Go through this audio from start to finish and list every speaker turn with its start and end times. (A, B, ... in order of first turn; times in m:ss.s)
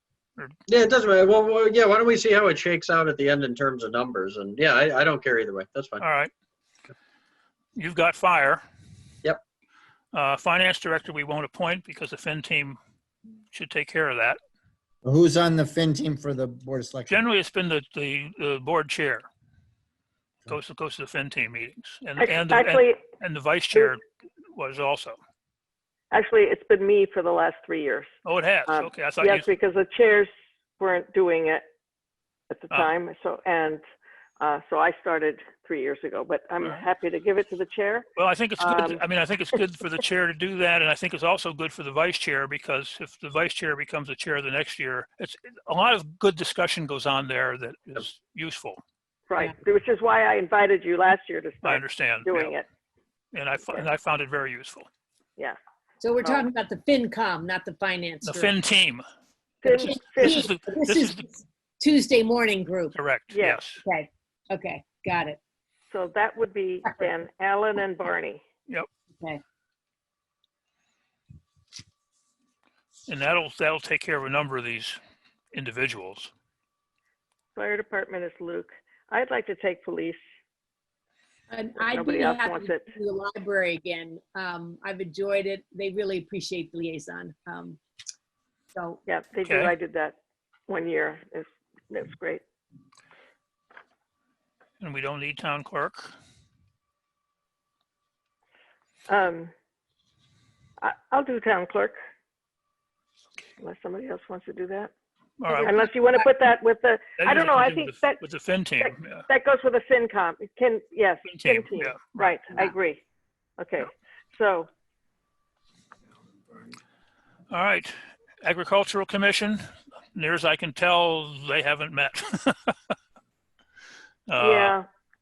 0:00.7-0:06.0 A
0:06.0-0:06.3 B
0:07.8-0:08.6 B
0:10.1-0:12.8 B
0:13.5-0:14.4 B
0:15.0-0:17.2 C
0:17.1-0:19.3 B
0:20.5-0:25.2 B
0:22.2-0:23.0 D
0:26.1-0:28.1 D
0:28.2-0:29.5 B
0:28.7-0:31.6 D
0:32.5-0:33.8 D
0:34.4-0:38.1 D
0:38.2-0:48.8 B
0:38.6-0:39.0 D
0:49.3-0:52.7 D
0:51.6-0:52.6 B
0:53.3-0:54.9 B
0:56.0-0:58.5 E
0:56.2-0:56.5 D
0:58.2-0:59.0 B
0:59.6-1:00.4 D
0:59.6-1:03.0 E
0:59.7-1:01.2 B
1:02.9-1:03.8 B
1:03.3-1:03.7 D
1:03.7-1:05.4 E
1:05.9-1:08.4 D
1:06.8-1:07.1 E
1:13.1-1:15.0 B
1:15.5-1:16.3 B
1:17.6-1:20.2 D
1:21.5-1:27.8 E
1:21.8-1:22.9 D
1:28.7-1:29.0 E
1:29.1-1:30.2 D
1:29.4-1:29.7 B
1:30.7-1:32.4 D
1:34.8-1:36.2 B
1:39.1-1:39.5 D
1:40.8-1:42.0 D
1:43.6-1:44.9 D
1:45.4-1:45.9 B
1:45.5-1:46.3 E
1:45.6-1:48.2 D
1:47.2-1:49.3 B
1:48.8-1:53.0 D
1:51.2-1:52.4 B
1:53.6-1:54.7 D
1:57.5-1:59.6 B
2:00.1-2:02.9 B
2:04.3-2:04.8 B
2:04.4-2:04.9 D